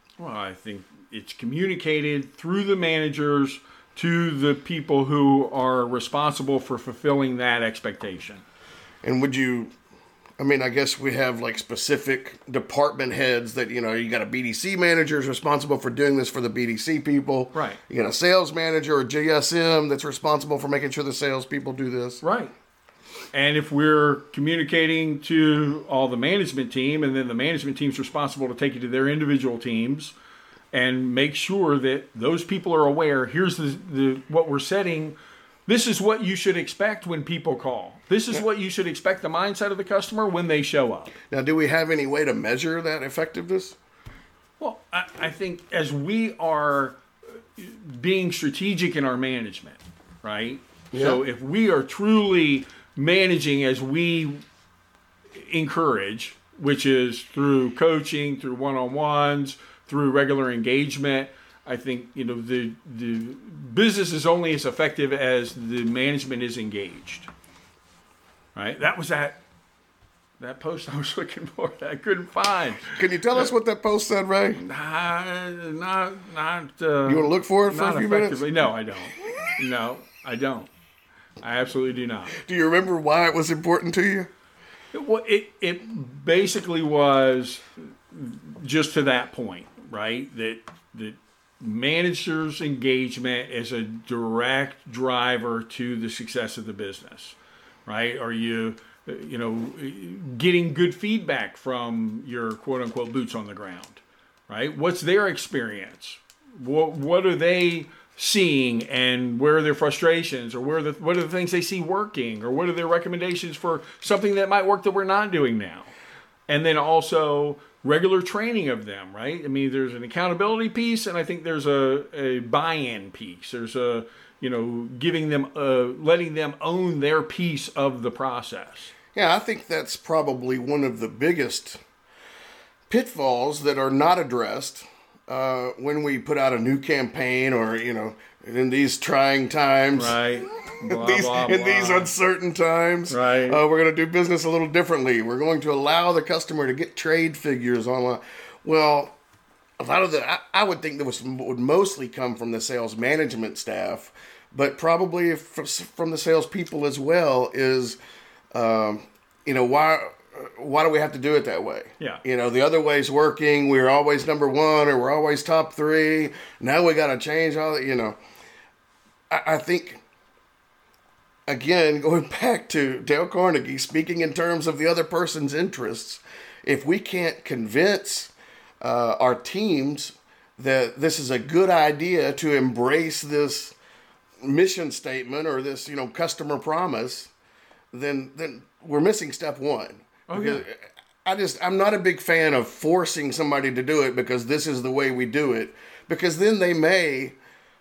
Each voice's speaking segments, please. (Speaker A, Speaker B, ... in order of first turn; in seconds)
Speaker A: 0.2-8.4, 17.5-17.8, 22.2-22.5, 23.3-30.1, 30.7-35.1, 35.7-41.1, 44.6-47.0, 47.5-54.4, 55.3-67.3, 68.5-69.4, 70.4-73.5, 74.6-80.7, 81.4-82.4, 84.9-115.9, 116.5-128.9, 139.9-142.1, 143.1-143.6, 190.3-190.6
Speaker B: 9.0-9.7, 10.4-22.2, 41.3-43.8, 50.9-51.2, 72.9-74.6, 77.0-78.5, 82.4-84.3, 129.1-131.8, 132.9-149.2, 149.8-158.0, 158.5-168.2, 169.3-170.0, 171.5-183.7, 184.4-187.3, 187.9-197.4